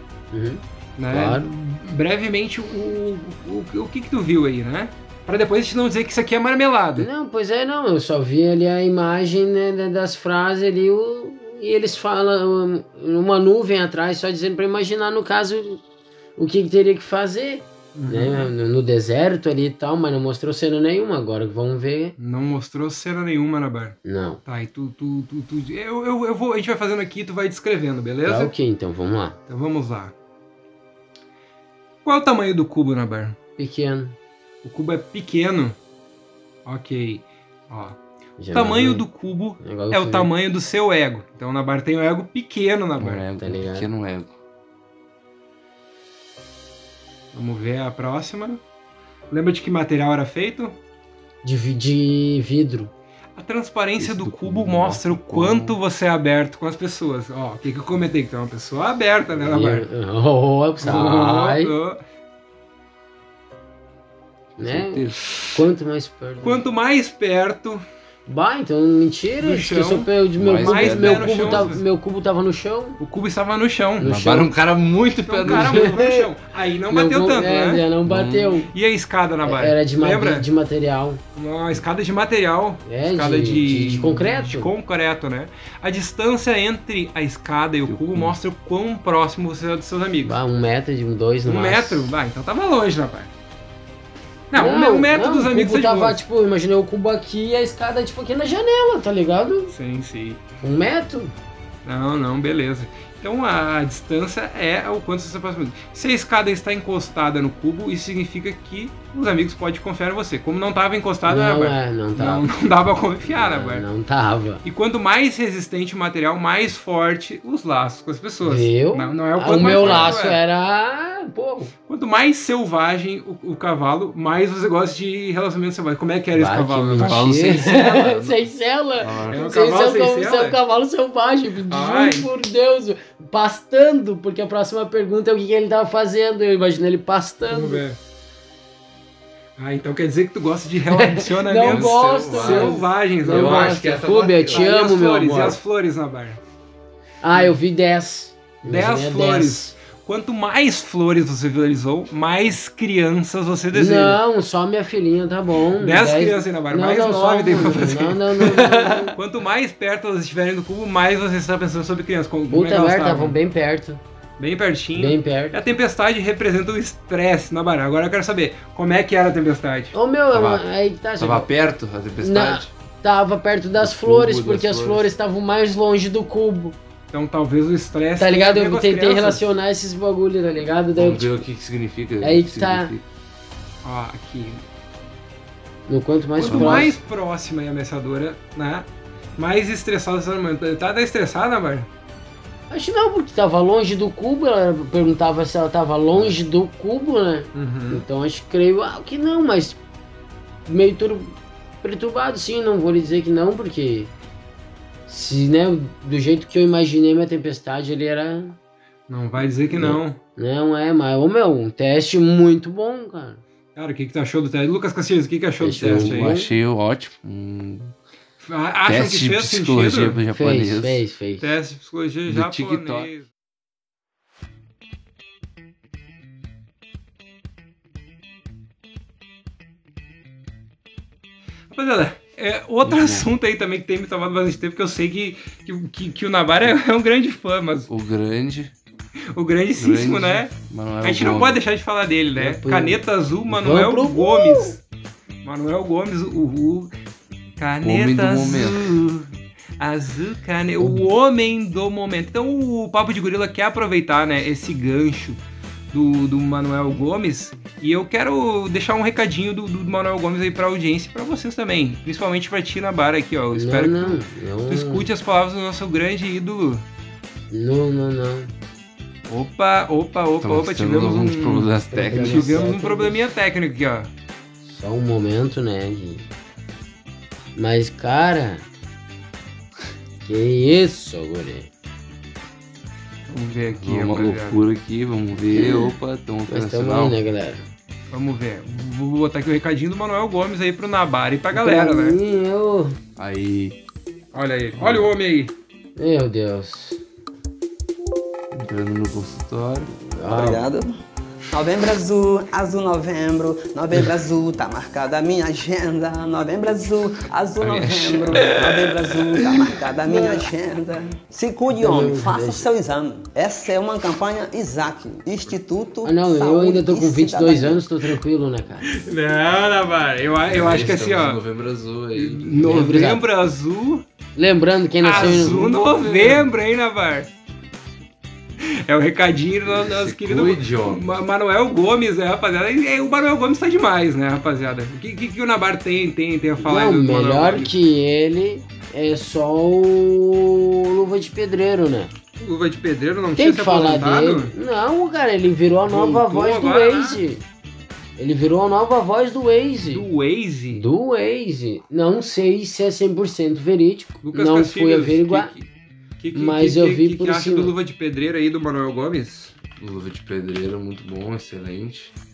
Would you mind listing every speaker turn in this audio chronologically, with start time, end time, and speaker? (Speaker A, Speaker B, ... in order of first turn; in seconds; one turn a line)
Speaker A: 0.3-1.5
Speaker B: 1.0-7.1
Speaker A: 7.0-15.8
Speaker A: 16.4-22.1
Speaker B: 17.9-18.5
Speaker B: 22.2-28.5
Speaker A: 24.1-24.4
Speaker A: 28.2-29.4
Speaker B: 29.5-30.1
Speaker B: 32.0-33.4
Speaker A: 33.6-34.2
Speaker B: 34.6-35.8
Speaker B: 36.7-38.0
Speaker A: 38.4-39.1
Speaker B: 38.5-43.2
Speaker A: 39.6-40.3
Speaker C: 43.0-44.3
Speaker A: 43.3-43.9
Speaker B: 47.3-48.6
Speaker B: 49.3-50.8
Speaker A: 51.4-52.9
Speaker B: 53.4-59.9
Speaker C: 54.0-55.8
Speaker A: 59.4-61.7
Speaker B: 60.8-62.0
Speaker A: 64.6-66.6
Speaker C: 64.6-65.2
Speaker B: 66.4-67.8
Speaker A: 68.3-73.0
Speaker B: 69.4-70.1
Speaker C: 70.4-71.7
Speaker B: 70.6-71.8
Speaker B: 73.0-74.2
Speaker A: 74.0-74.5
Speaker C: 74.0-75.9
Speaker B: 75.2-77.8
Speaker A: 75.5-76.3
Speaker A: 76.9-78.7
Speaker C: 78.1-78.6
Speaker B: 78.7-80.5
Speaker A: 79.4-81.2
Speaker B: 81.4-90.4
Speaker A: 82.9-84.7
Speaker C: 87.9-88.4
Speaker A: 90.2-92.1
Speaker B: 91.5-93.3
Speaker B: 94.5-96.2
Speaker A: 94.5-99.7
Speaker B: 99.7-100.5
Speaker A: 100.6-101.3
Speaker B: 101.8-113.8
Speaker A: 111.3-112.5
Speaker A: 113.3-114.6
Speaker B: 114.6-120.4
Speaker A: 118.4-121.7
Speaker C: 119.6-120.2
Speaker B: 121.9-127.5
Speaker A: 126.3-137.8
Speaker C: 127.0-129.4
Speaker B: 129.3-130.6
Speaker B: 131.7-132.3
Speaker B: 137.5-138.0
Speaker B: 139.6-146.4
Speaker A: 140.9-145.6
Speaker C: 141.7-144.7
Speaker A: 147.2-149.7
Speaker B: 148.6-154.2
Speaker A: 153.7-159.2
Speaker B: 155.8-163.4
Speaker A: 162.5-164.0
Speaker B: 164.4-169.9
Speaker A: 164.9-165.6
Speaker A: 169.9-171.5
Speaker C: 170.3-170.6
Speaker C: 171.2-172.7
Speaker A: 172.2-176.8
Speaker C: 173.8-175.1
Speaker B: 177.1-179.4
Speaker A: 178.2-181.4
Speaker C: 180.9-183.0
Speaker A: 182.2-182.9
Speaker B: 183.8-184.7
Speaker A: 185.9-187.0
Speaker B: 186.4-191.9
Speaker C: 186.4-186.9
Speaker A: 192.7-199.8
Speaker B: 197.6-198.1
Speaker A: 200.7-204.1
Speaker A: 205.1-208.6
Speaker B: 209.1-210.2
Speaker A: 209.7-213.4
Speaker B: 213.8-216.3
Speaker A: 215.6-216.5
Speaker C: 215.9-217.9
Speaker B: 218.4-220.2
Speaker C: 218.9-221.0
Speaker A: 220.3-221.5
Speaker B: 221.4-223.3
Speaker C: 222.3-223.1
Speaker B: 231.7-237.9
Speaker C: 232.8-233.3
Speaker C: 237.9-238.7
Speaker B: 239.3-244.8
Speaker C: 239.8-241.6
Speaker A: 242.4-244.8
Speaker B: 245.4-246.9
Speaker B: 247.6-255.4
Speaker C: 247.8-249.0
Speaker A: 250.8-251.1
Speaker B: 255.9-266.9
Speaker A: 263.5-265.1
Speaker A: 267.5-268.5
Speaker B: 269.3-274.1
Speaker C: 270.4-272.6
Speaker A: 271.9-273.2
Speaker A: 274.6-276.3
Speaker A: 277.6-278.7
Speaker A: 280.2-281.7
Speaker B: 283.3-284.6
Speaker C: 283.7-287.2
Speaker A: 285.5-285.9
Speaker A: 286.5-287.7
Speaker B: 288.1-292.2
Speaker A: 291.5-293.0
Speaker C: 293.2-293.8
Speaker B: 294.3-295.5
Speaker C: 294.8-295.1
Speaker A: 296.0-297.0
Speaker C: 298.5-299.9
Speaker A: 300.1-300.6
Speaker D: 300.2-300.9
Speaker D: 301.5-317.8
Speaker C: 307.6-309.6
Speaker A: 310.1-310.4
Speaker A: 311.7-312.7
Speaker A: 316.0-318.9
Speaker B: 318.9-321.4
Speaker C: 320.5-322.7
Speaker B: 322.2-324.1
Speaker A: 322.6-323.2
Speaker A: 324.4-326.3
Speaker B: 325.0-327.3
Speaker C: 325.1-326.5
Speaker B: 328.6-337.7
Speaker C: 329.7-331.1
Speaker A: 336.6-342.1
Speaker B: 342.4-344.5
Speaker A: 343.4-347.4
Speaker B: 345.9-347.2
Speaker A: 348.2-350.1
Speaker B: 349.9-350.9
Speaker A: 350.7-355.5
Speaker B: 354.2-355.7
Speaker B: 356.2-359.5
Speaker A: 356.3-357.7
Speaker C: 359.8-362.1